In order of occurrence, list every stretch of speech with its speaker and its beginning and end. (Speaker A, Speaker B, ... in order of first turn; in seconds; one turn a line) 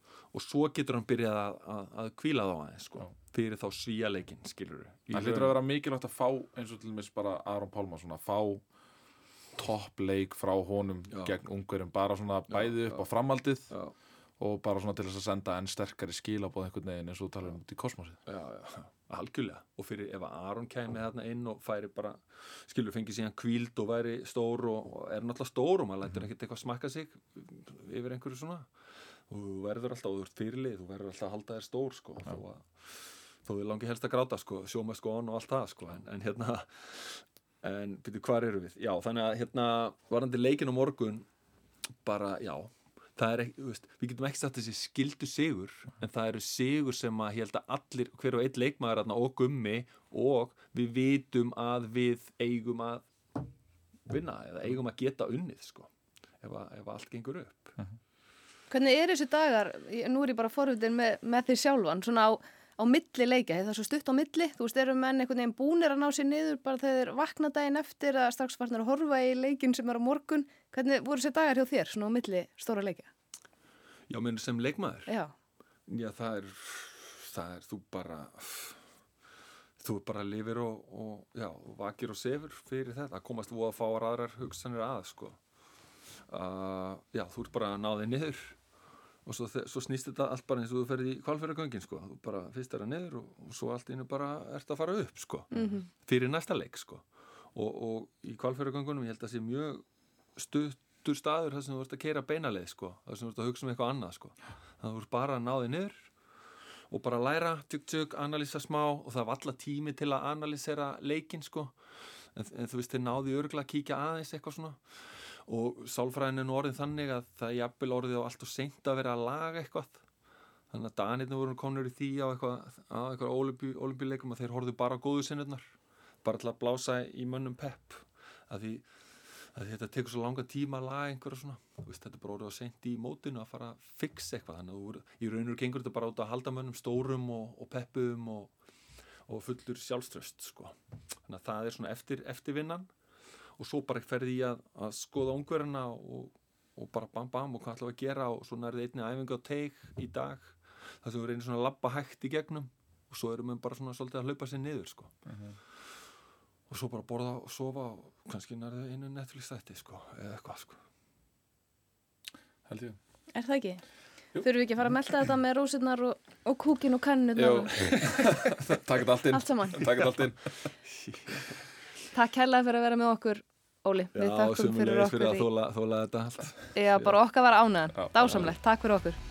Speaker A: 0.3-5.6
Speaker B: 5.1-8.6
Speaker B: 9.6-13.7
Speaker A: 11.1-11.4
Speaker A: 12.5-13.1
Speaker A: 13.7-13.9
Speaker B: 14.4-18.2
Speaker A: 18.3-28.7
Speaker A: 29.3-41.3
Speaker A: 42.0-53.1
Speaker A: 54.1-57.8
Speaker C: 58.7-73.1
Speaker A: 74.1-75.1
Speaker C: 75.1-75.3
Speaker A: 75.9-78.8
Speaker A: 79.8-85.4
Speaker A: 86.3-88.6
Speaker A: 89.2-99.8
Speaker C: 95.5-95.9
Speaker A: 100.4-106.1
Speaker A: 106.9-111.8
Speaker A: 112.3-114.8
Speaker A: 115.5-120.0
Speaker A: 120.7-128.9
Speaker A: 129.5-138.5
Speaker A: 139.3-142.9
Speaker A: 143.6-155.2
Speaker B: 155.3-155.6
Speaker A: 156.7-160.8
Speaker B: 162.7-163.0
Speaker C: 163.3-163.8
Speaker C: 164.3-168.0
Speaker B: 167.4-170.7
Speaker C: 169.3-170.1
Speaker A: 170.8-171.5
Speaker C: 172.1-175.5
Speaker A: 174.1-177.2
Speaker C: 176.8-179.2
Speaker B: 177.9-178.6